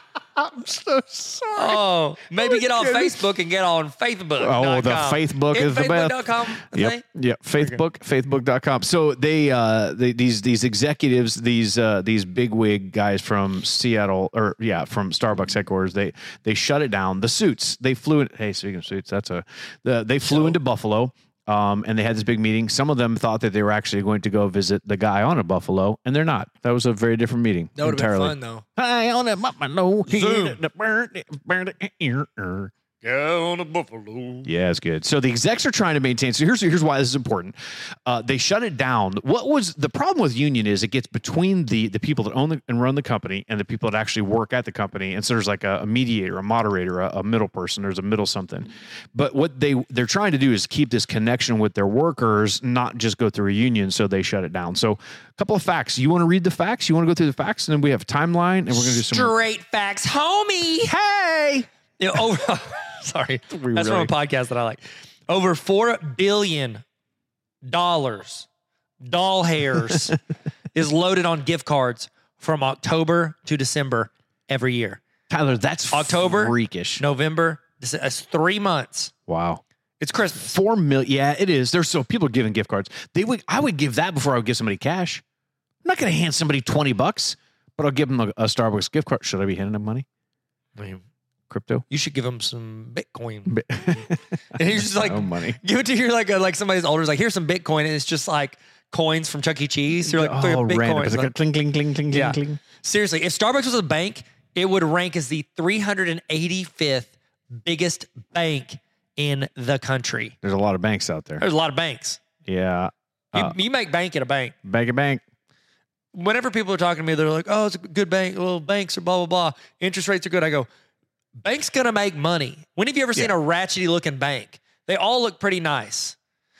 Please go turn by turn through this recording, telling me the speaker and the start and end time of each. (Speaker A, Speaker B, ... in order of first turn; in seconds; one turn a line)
Speaker A: 0.3-1.8
Speaker B: 1.5-7.0
Speaker A: 2.4-3.2
Speaker A: 4.4-32.7
Speaker B: 20.2-20.6
Speaker B: 27.8-28.6
Speaker B: 30.1-30.6
Speaker B: 33.0-34.5
Speaker A: 34.4-59.3
Speaker B: 58.7-60.9
Speaker A: 60.9-62.2
Speaker B: 62.0-66.8
Speaker A: 63.5-64.1
Speaker B: 67.6-68.5
Speaker B: 69.0-70.2
Speaker B: 70.7-75.0
Speaker A: 75.3-77.0
Speaker B: 75.9-79.1
Speaker A: 79.3-79.6
Speaker B: 80.0-80.6
Speaker A: 80.4-85.2
Speaker A: 85.8-90.0
Speaker B: 90.8-91.0
Speaker A: 91.5-91.8
Speaker B: 91.9-93.6
Speaker A: 93.5-95.6
Speaker B: 94.5-101.3
Speaker A: 100.0-102.6
Speaker B: 102.1-110.3
Speaker A: 110.4-111.4
Speaker B: 111.4-112.2
Speaker A: 112.4-113.5
Speaker B: 113.3-114.5
Speaker A: 114.6-115.2
Speaker B: 116.1-120.7
Speaker B: 121.4-126.2